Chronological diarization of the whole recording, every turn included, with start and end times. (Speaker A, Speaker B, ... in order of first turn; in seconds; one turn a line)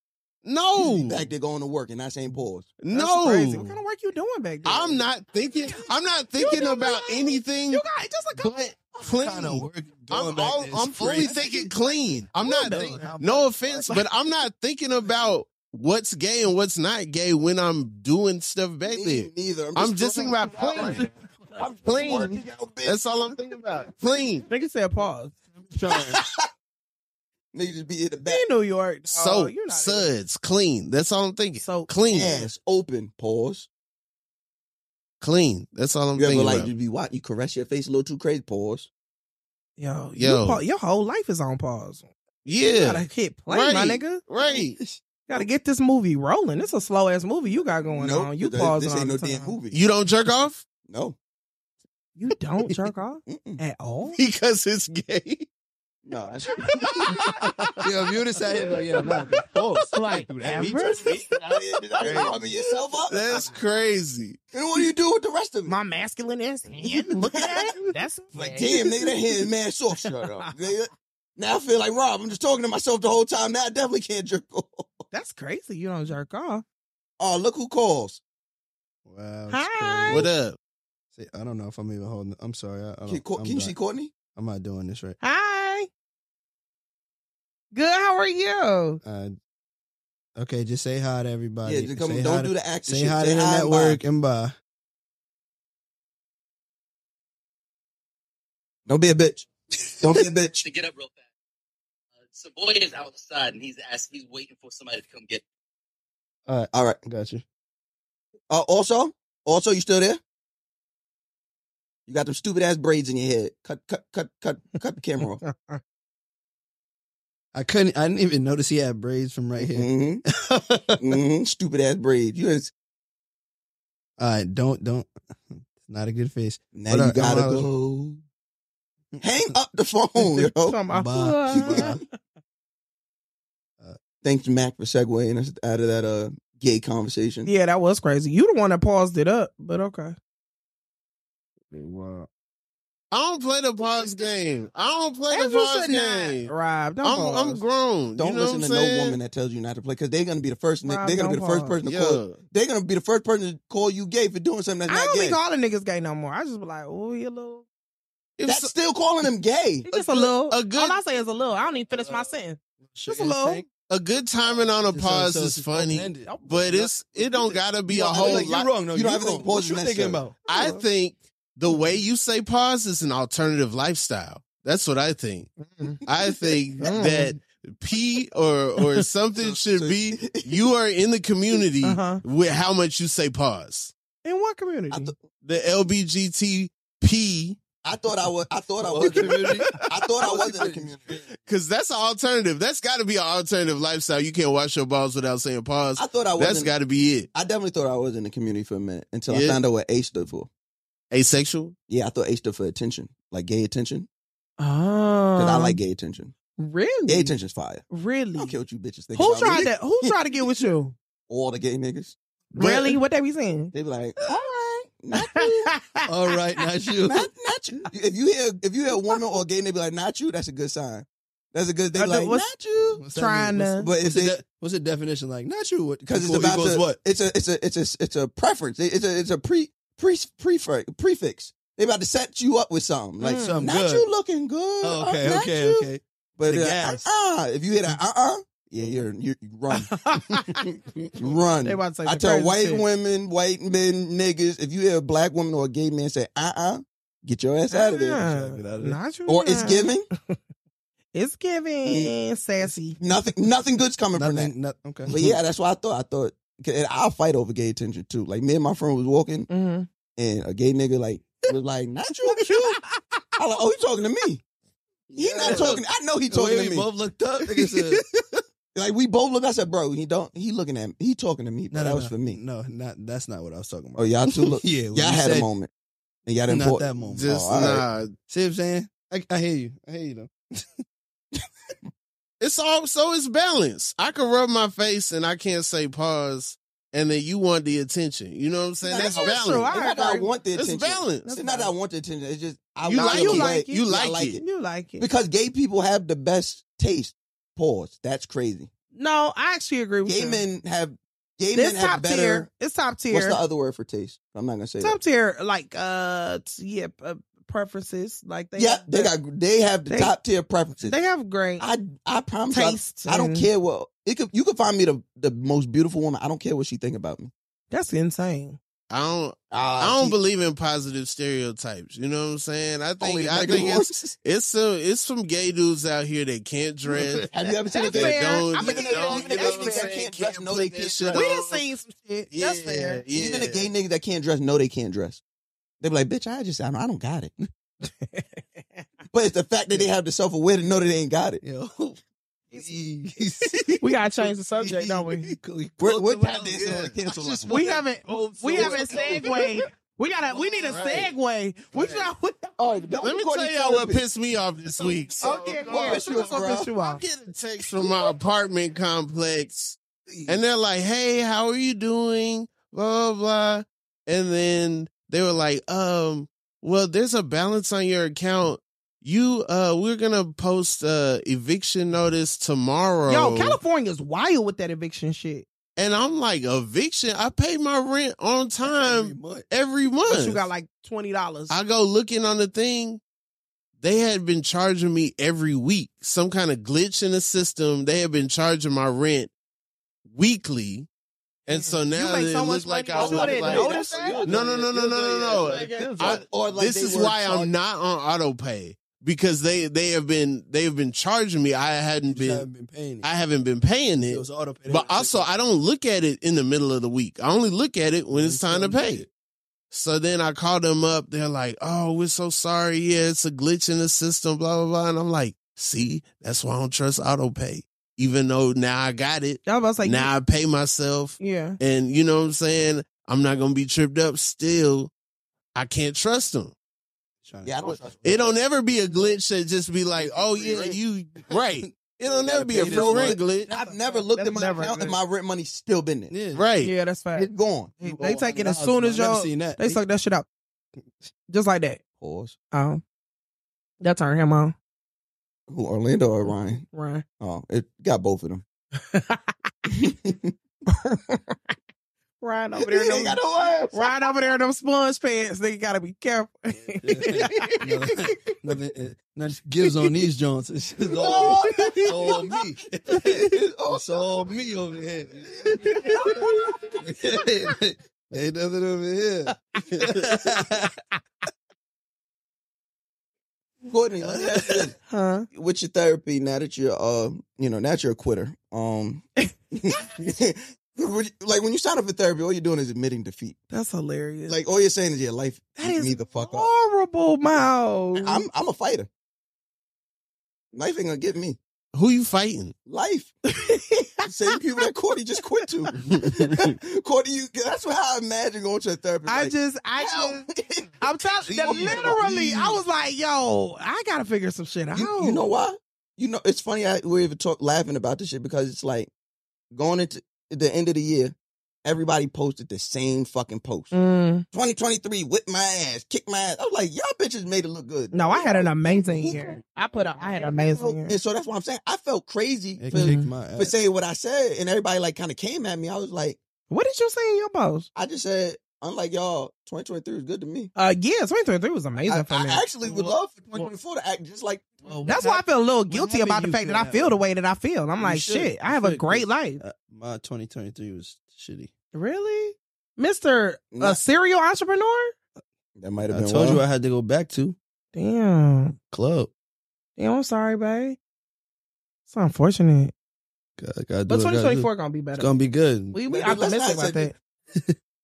Speaker A: 0.4-1.3
Speaker B: 0.8-2.7
Speaker A: 2.8-3.8
Speaker C: 2.9-5.0
Speaker A: 4.6-7.8
Speaker C: 6.3-8.5
Speaker A: 8.4-21.1
Speaker D: 9.0-11.6
Speaker C: 12.3-13.1
Speaker D: 12.6-13.9
Speaker B: 18.8-23.0
Speaker A: 21.8-24.4
Speaker C: 24.5-25.4
Speaker A: 25.8-26.1
Speaker B: 25.9-26.2
Speaker B: 27.5-28.4
Speaker C: 28.2-30.1
Speaker A: 29.1-32.5
Speaker C: 31.6-31.9
Speaker B: 32.1-33.7
Speaker A: 35.2-36.7
Speaker B: 36.1-38.9
Speaker C: 39.8-42.1
Speaker A: 40.2-40.6
Speaker A: 42.4-44.8
Speaker C: 42.8-44.2
Speaker D: 44.4-45.0
Speaker C: 45.3-49.5
Speaker B: 47.9-49.8
Speaker A: 49.7-50.6
Speaker B: 50.9-51.1
Speaker C: 52.1-54.2
Speaker B: 53.3-53.6
Speaker A: 54.1-55.5
Speaker B: 56.0-57.4
Speaker D: 57.8-61.0
Speaker A: 59.5-62.4
Speaker C: 59.9-61.1
Speaker B: 60.5-63.4
Speaker D: 62.1-62.3
Speaker A: 63.1-64.4
Speaker B: 64.5-65.7
Speaker C: 65.7-68.8
Speaker B: 68.3-75.0
Speaker C: 70.0-70.5
Speaker C: 75.1-76.6
Speaker B: 77.2-78.2
Speaker D: 79.0-80.3
Speaker C: 79.5-80.3
Speaker A: 80.1-80.6
Speaker D: 81.1-83.7
Speaker B: 83.1-84.1
Speaker D: 84.3-85.2
Speaker C: 85.2-85.9
Speaker C: 87.7-89.0
Speaker D: 89.0-89.3
Speaker D: 90.3-94.5
Speaker B: 91.6-94.0
Speaker B: 98.8-99.5
Speaker B: 100.0-100.6
Speaker E: 100.6-101.2
Speaker E: 102.3-105.4
Speaker D: 106.5-107.4
Speaker B: 106.7-107.0
Speaker B: 108.5-110.2
Speaker B: 112.1-115.4
Speaker C: 115.4-115.8
Speaker D: 117.5-119.9
Speaker B: 119.6-120.2
Speaker D: 120.4-121.2
Speaker B: 121.0-122.7
Speaker D: 124.2-127.7
Speaker B: 126.7-128.2
Speaker B: 129.2-130.8
Speaker C: 130.3-131.9
Speaker D: 130.9-132.0
Speaker B: 131.5-131.9
Speaker B: 134.2-137.5
Speaker C: 137.4-140.1
Speaker D: 141.7-142.3
Speaker A: 143.1-149.2
Speaker C: 145.3-147.6
Speaker B: 148.2-155.4
Speaker C: 150.8-151.8
Speaker A: 151.8-152.4
Speaker C: 154.9-157.6
Speaker A: 158.4-158.7
Speaker B: 158.5-159.9
Speaker C: 159.9-163.6
Speaker A: 159.9-161.0
Speaker D: 161.9-163.7
Speaker A: 163.9-168.7
Speaker D: 164.8-170.4
Speaker C: 166.2-166.9
Speaker B: 167.9-170.2
Speaker A: 170.5-183.9
Speaker C: 170.5-170.8
Speaker C: 176.8-177.3
Speaker B: 179.4-180.6
Speaker C: 181.8-182.2
Speaker C: 184.2-185.1
Speaker B: 184.9-185.2
Speaker A: 185.4-187.6
Speaker B: 187.8-191.3
Speaker D: 188.8-191.2
Speaker A: 191.3-197.3
Speaker B: 196.0-196.7
Speaker B: 197.3-200.5
Speaker A: 199.3-199.6
Speaker A: 201.1-201.7
Speaker B: 201.9-204.1
Speaker C: 204.6-205.8
Speaker B: 205.3-206.3
Speaker C: 206.6-207.3
Speaker B: 207.1-207.8
Speaker C: 207.9-208.6
Speaker B: 208.3-210.1
Speaker C: 209.1-210.9
Speaker B: 211.3-213.0
Speaker C: 212.6-213.7
Speaker B: 213.7-215.7
Speaker C: 215.1-216.0
Speaker D: 216.1-217.3
Speaker B: 217.1-223.0
Speaker C: 221.9-222.5
Speaker D: 222.9-227.0
Speaker C: 223.1-223.9
Speaker B: 223.8-224.4
Speaker B: 226.1-240.0
Speaker C: 233.2-233.7
Speaker D: 233.4-234.1
Speaker D: 234.8-237.1
Speaker C: 239.8-240.6
Speaker B: 241.2-248.2
Speaker C: 241.6-242.8
Speaker C: 247.7-250.4
Speaker D: 248.2-249.0
Speaker B: 249.2-250.1
Speaker C: 251.1-253.0
Speaker B: 251.8-252.1
Speaker B: 253.0-254.5
Speaker D: 254.1-255.3
Speaker B: 255.1-259.5
Speaker C: 259.5-259.9
Speaker B: 260.1-262.8
Speaker C: 262.4-263.1
Speaker B: 263.4-264.4
Speaker B: 265.1-266.9
Speaker A: 265.2-265.7
Speaker D: 265.4-268.0
Speaker B: 268.7-272.4
Speaker D: 271.7-275.5
Speaker B: 273.9-275.7
Speaker B: 276.2-277.9
Speaker D: 276.5-277.8
Speaker A: 277.1-278.1
Speaker D: 278.3-280.8
Speaker A: 282.4-289.7
Speaker B: 288.8-294.4
Speaker C: 288.9-290.3
Speaker A: 290.5-291.3
Speaker C: 291.2-291.7
Speaker A: 292.8-294.4
Speaker C: 292.9-295.1
Speaker B: 295.0-298.7
Speaker C: 298.9-300.4
Speaker B: 300.0-302.5
Speaker C: 301.5-303.4
Speaker B: 303.1-305.0
Speaker C: 304.8-309.1
Speaker B: 308.6-311.0
Speaker C: 309.9-310.1
Speaker C: 310.8-311.6
Speaker B: 311.6-317.3
Speaker C: 312.5-313.5
Speaker C: 317.7-318.6
Speaker A: 318.9-327.2
Speaker B: 319.5-320.2
Speaker B: 323.0-324.1
Speaker D: 326.9-327.3
Speaker B: 327.3-331.3
Speaker C: 327.7-329.9
Speaker A: 327.9-331.6
Speaker C: 331.1-333.0
Speaker A: 332.3-333.7
Speaker B: 333.1-335.2
Speaker B: 335.8-337.3
Speaker C: 338.0-338.8
Speaker B: 339.1-341.4
Speaker D: 341.4-342.0
Speaker D: 342.5-349.4
Speaker C: 343.8-345.3
Speaker B: 345.8-347.7
Speaker A: 346.6-347.0
Speaker C: 347.5-352.5
Speaker A: 348.5-349.1
Speaker B: 348.6-349.0
Speaker A: 350.3-351.1
Speaker A: 351.7-352.1
Speaker B: 352.6-354.0
Speaker A: 353.0-373.6
Speaker B: 354.8-356.7
Speaker C: 355.2-357.0
Speaker D: 360.1-360.4
Speaker C: 373.1-375.4
Speaker A: 375.8-380.5
Speaker D: 378.6-379.4
Speaker C: 380.1-381.6
Speaker A: 381.5-383.0
Speaker A: 383.8-389.3
Speaker A: 390.1-390.9
Speaker A: 391.5-402.5
Speaker C: 391.5-394.2
Speaker B: 392.9-397.5
Speaker D: 393.5-396.2
Speaker D: 402.1-403.1
Speaker A: 403.0-409.1
Speaker D: 404.0-405.3
Speaker D: 408.1-409.1
Speaker A: 409.7-424.9
Speaker C: 419.4-420.1
Speaker C: 421.2-421.6
Speaker A: 425.5-426.5
Speaker D: 427.2-427.9
Speaker B: 427.4-428.4
Speaker A: 427.6-433.5
Speaker B: 430.4-430.8
Speaker D: 431.6-433.2
Speaker B: 432.5-436.1
Speaker C: 433.5-435.0
Speaker D: 436.1-436.4
Speaker A: 436.3-436.7
Speaker C: 436.6-437.3
Speaker B: 437.1-437.7
Speaker C: 437.8-440.2
Speaker D: 437.8-439.8
Speaker C: 441.3-441.8
Speaker B: 442.0-442.3
Speaker C: 442.5-442.8
Speaker C: 443.8-444.5
Speaker B: 445.5-446.6
Speaker C: 446.7-447.0
Speaker B: 447.2-448.4
Speaker C: 448.9-449.3
Speaker B: 449.7-450.3
Speaker C: 450.8-451.5
Speaker C: 452.2-453.2
Speaker B: 452.6-454.1
Speaker C: 453.7-457.6
Speaker D: 456.8-466.2
Speaker B: 460.9-462.3
Speaker C: 461.1-461.9
Speaker B: 462.9-464.1
Speaker C: 465.7-466.6
Speaker D: 466.8-470.7
Speaker B: 473.7-474.8
Speaker D: 474.0-474.7
Speaker C: 474.9-475.3
Speaker B: 475.3-483.4
Speaker C: 483.5-484.4
Speaker B: 484.3-486.5
Speaker C: 485.6-488.2
Speaker B: 488.0-488.9
Speaker B: 490.5-491.4
Speaker A: 491.7-492.5
Speaker B: 492.6-493.1
Speaker C: 493.3-494.0
Speaker B: 494.1-502.2
Speaker C: 499.1-500.3
Speaker C: 500.8-505.2
Speaker D: 501.3-502.5
Speaker B: 504.7-508.9
Speaker B: 509.5-513.7
Speaker C: 513.7-514.2
Speaker B: 514.3-519.4
Speaker C: 517.9-521.0
Speaker B: 520.4-526.2
Speaker D: 522.6-523.5
Speaker C: 522.7-523.1
Speaker C: 526.5-527.7
Speaker B: 527.7-530.5
Speaker C: 530.5-532.4
Speaker B: 531.9-534.6
Speaker D: 532.6-533.5
Speaker D: 534.6-537.0
Speaker C: 534.9-539.4
Speaker D: 537.8-541.5
Speaker C: 541.7-544.9
Speaker B: 543.5-543.8
Speaker B: 545.6-546.4
Speaker D: 545.9-547.4
Speaker C: 547.7-548.5
Speaker D: 548.7-549.1
Speaker C: 549.8-550.8
Speaker C: 551.9-552.7
Speaker D: 553.4-555.8
Speaker C: 553.9-556.9
Speaker B: 555.9-556.9